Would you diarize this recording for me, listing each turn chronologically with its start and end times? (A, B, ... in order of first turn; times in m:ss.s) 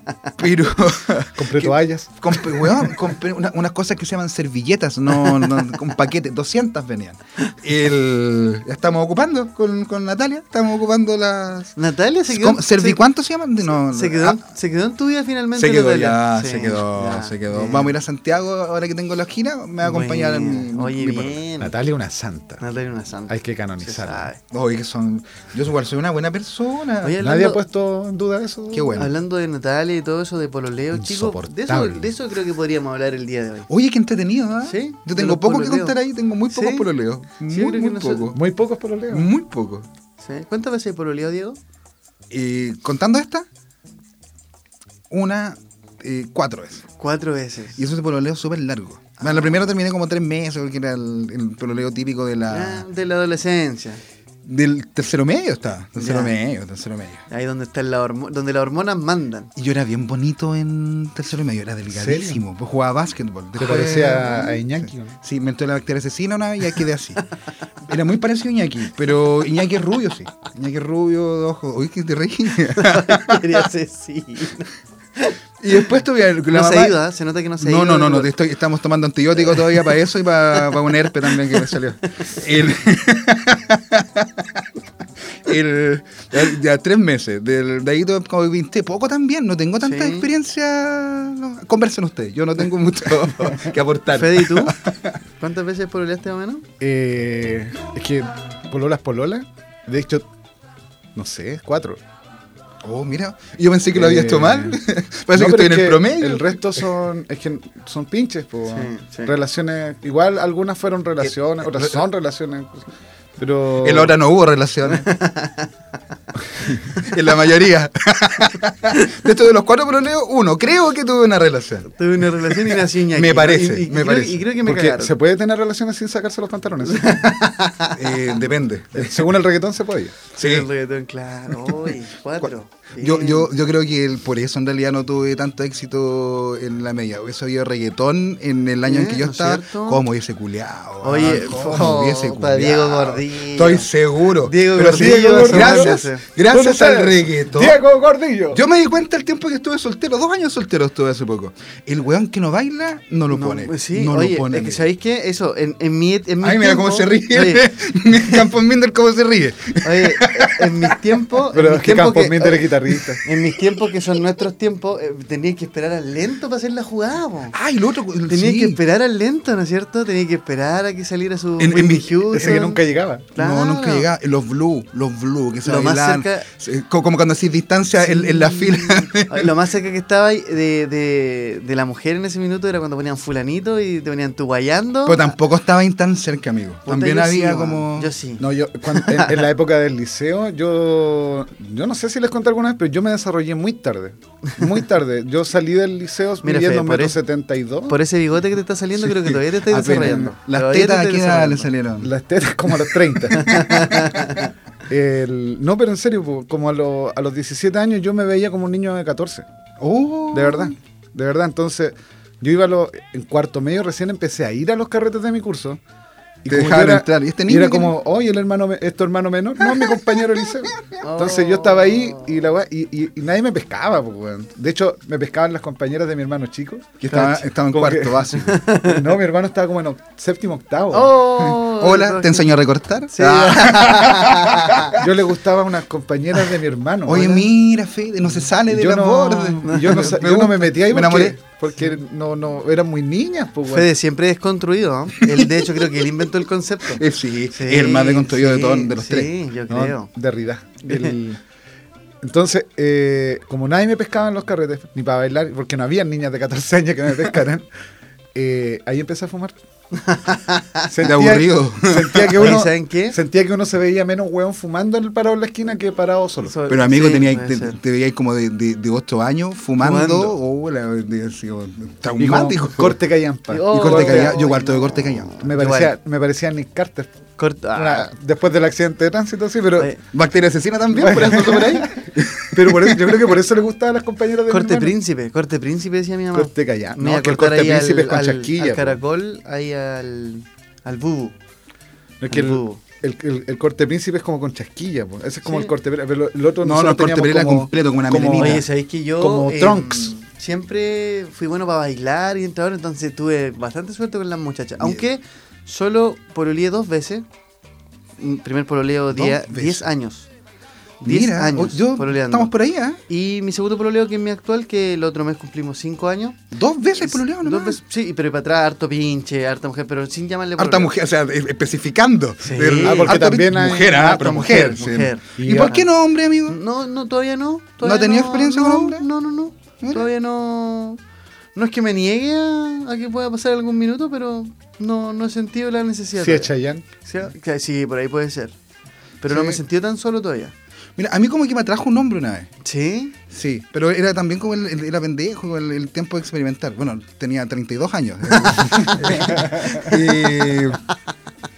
0:00.4-0:11.8 A
0:01.4-0:02.9 B
0:11.8-0:13.0 C
0:12.3-0:14.4 A
0:13.6-0:18.0 C
0:15.6-0:21.4 A
0:19.8-0:21.7 C
0:21.6-0:22.6 B
0:22.6-0:24.4 C
0:23.3-0:24.3 B
0:24.5-0:27.2 A
0:27.0-0:27.6 C
0:27.2-0:29.0 B
0:28.7-0:29.1 A
0:29.0-0:33.7 C
0:30.9-0:32.1 B
0:33.7-0:38.4 A
0:34.6-0:36.0 C
0:36.5-0:36.9 C
0:37.4-0:38.4 C
0:38.3-0:39.3 B
0:39.1-0:39.9 A
0:40.2-0:41.6 C
0:42.3-0:43.5 A
0:45.1-0:46.9 A
0:47.0-0:47.8 C
0:47.8-0:52.8 A
0:49.2-0:49.6 C
0:52.5-0:54.0 C
0:54.4-0:57.2 A
0:56.0-0:56.3 C
0:57.3-0:59.5 C
0:59.6-1:07.3 A
1:01.9-1:02.4 B
1:03.6-1:05.2 B
1:07.9-1:13.5 A
1:12.7-1:15.4 C
1:15.6-1:17.0 A
1:16.5-1:18.3 C
1:17.6-1:24.6 A
1:19.4-1:19.9 C
1:20.5-1:22.3 C
1:25.4-1:35.2 A
1:29.8-1:30.3 C
1:34.1-1:34.8 C
1:35.4-1:36.7 C
1:36.8-1:40.3 B
1:41.2-1:42.0 B
1:42.8-1:46.8 A
1:43.9-1:44.8 B
1:45.3-1:54.2 B
1:48.7-1:49.3 C
1:53.8-1:55.1 A
1:54.9-1:55.7 C
1:56.9-2:04.5 A
2:01.9-2:05.2 C
2:04.6-2:07.2 B
2:06.8-2:08.0 C
2:08.0-2:09.3 A
2:08.9-2:10.2 B
2:10.4-2:13.5 C
2:10.4-2:10.7 A
2:11.6-2:27.8 A
2:18.9-2:20.0 C
2:21.0-2:23.9 C
2:24.4-2:26.2 C
2:24.8-2:28.6 B
2:28.5-2:34.8 A
2:33.3-2:38.4 C
2:36.4-2:41.0 A
2:39.8-2:42.7 C
2:41.5-2:43.2 B
2:43.2-2:47.6 C
2:47.5-2:48.8 A
2:48.3-2:52.8 C
2:51.6-2:52.3 A
2:52.3-2:53.3 B
2:53.4-2:54.1 C
2:53.4-2:59.5 A
2:55.6-2:56.5 C
2:58.0-3:05.4 C
3:05.1-3:08.1 A
3:06.9-3:09.4 C
3:08.4-3:18.0 B
3:16.4-3:17.2 C
3:17.9-3:21.7 C
3:19.0-3:22.1 A
3:22.0-3:23.8 B
3:23.3-3:24.5 C
3:24.9-3:29.5 B
3:29.8-3:30.7 A
3:30.3-3:35.8 B
3:36.4-3:47.1 B
3:36.5-3:37.9 A
3:41.0-3:42.3 C
3:47.0-3:48.6 A
3:47.1-3:47.5 C
3:47.7-3:48.3 B
3:48.3-3:49.1 C
3:48.8-3:51.2 B
3:50.9-3:52.5 C
3:51.4-3:54.9 A
3:53.1-3:55.0 C
3:54.9-3:57.4 B
3:57.1-4:01.4 A
3:58.7-4:03.9 B
3:59.6-4:00.1 C
4:03.7-4:10.1 C
4:05.2-4:06.3 A
4:07.0-4:09.3 A
4:09.7-4:11.4 B
4:10.8-4:11.2 C
4:12.2-4:17.7 B
4:18.4-4:19.6 B
4:19.9-4:20.9 C
4:20.9-4:26.6 B
4:21.0-4:22.6 A
4:22.3-4:23.2 C
4:26.4-4:27.8 C
4:26.7-4:33.0 A
4:29.8-4:30.4 C
4:32.2-4:34.4 B
4:33.5-4:35.9 C
4:33.7-4:35.5 A
4:35.4-4:37.2 B
4:37.4-4:38.1 C
4:37.8-4:39.9 B
4:40.1-4:43.4 A
4:40.9-4:45.0 B
4:41.3-4:41.6 C
4:44.5-4:51.4 C
4:46.3-4:49.0 B
4:52.2-4:58.6 B
4:52.3-4:52.8 C
4:55.4-4:55.7 C
4:56.6-4:58.6 A
4:58.4-5:07.2 C
4:59.2-5:00.1 B
5:08.2-5:10.3 C
5:09.1-5:09.8 A
5:11.0-5:12.5 C
5:11.0-5:13.0 A
5:13.1-5:16.4 C
5:16.5-5:17.8 A
5:17.0-5:20.9 C
5:20.6-5:26.6 A
5:22.4-5:23.2 C
5:22.8-5:24.3 B
5:24.0-5:25.9 C
5:25.4-5:25.8 B
5:26.5-5:31.0 C
5:27.8-5:29.1 A
5:31.6-5:38.6 C
5:36.2-5:36.9 B
5:39.2-5:40.5 C
5:39.3-5:39.6 A
5:41.0-5:42.5 A
5:42.6-5:43.2 C
5:43.3-5:50.8 A
5:48.4-5:50.5 C